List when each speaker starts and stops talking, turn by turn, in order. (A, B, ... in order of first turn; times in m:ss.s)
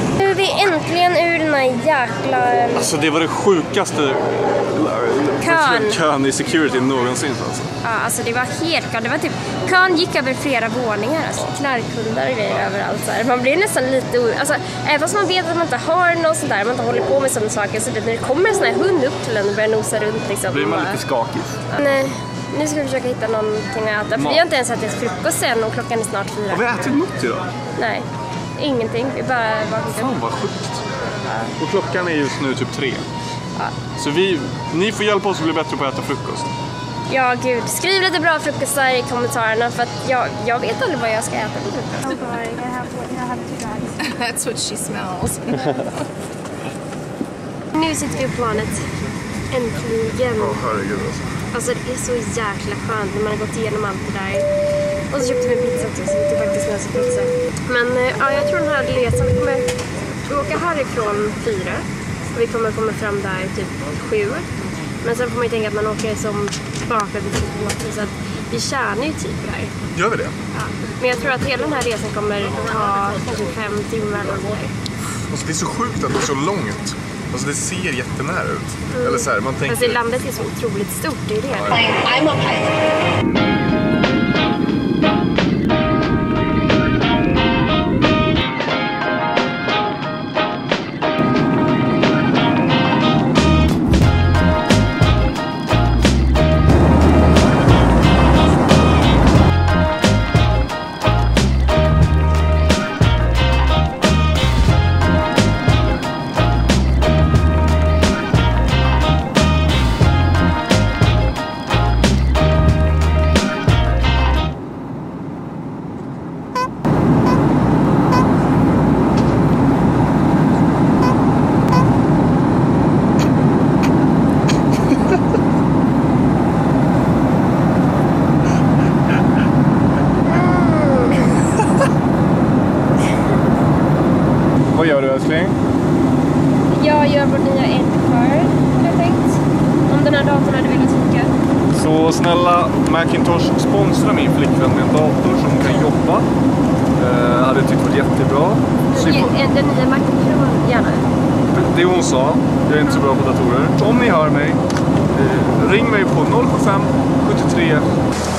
0:00.2-0:02.9 A
0:02.8-0:07.7 B
0:05.4-0:06.0 A
0:07.8-0:21.0 A
0:20.5-0:21.6 B
0:21.7-0:26.6 A
0:24.1-0:24.4 B
0:26.5-0:27.5 B
0:27.8-0:30.2 A
0:30.0-0:30.8 B
0:31.2-0:31.5 A
0:31.6-0:33.0 B
0:34.0-0:36.5 B
0:37.1-0:42.5 A
0:42.2-0:46.0 C
0:47.7-0:48.9 A
0:49.5-0:50.7 A
0:50.4-0:51.3 B
0:51.5-0:54.5 A
0:55.1-0:59.7 A
1:00.2-1:04.5 A
1:05.0-1:09.7 A
1:09.9-1:10.3 B
1:10.5-1:14.7 A
1:15.3-1:20.0 B
1:18.9-1:22.6 A
1:21.5-1:22.0 B
2:10.2-2:11.3 A
2:14.7-2:15.6 B
2:16.7-2:21.3 A
2:21.7-2:26.3 B
2:27.0-2:29.3 B
2:28.9-2:31.1 A
2:31.5-2:34.6 B
2:35.1-2:37.9 B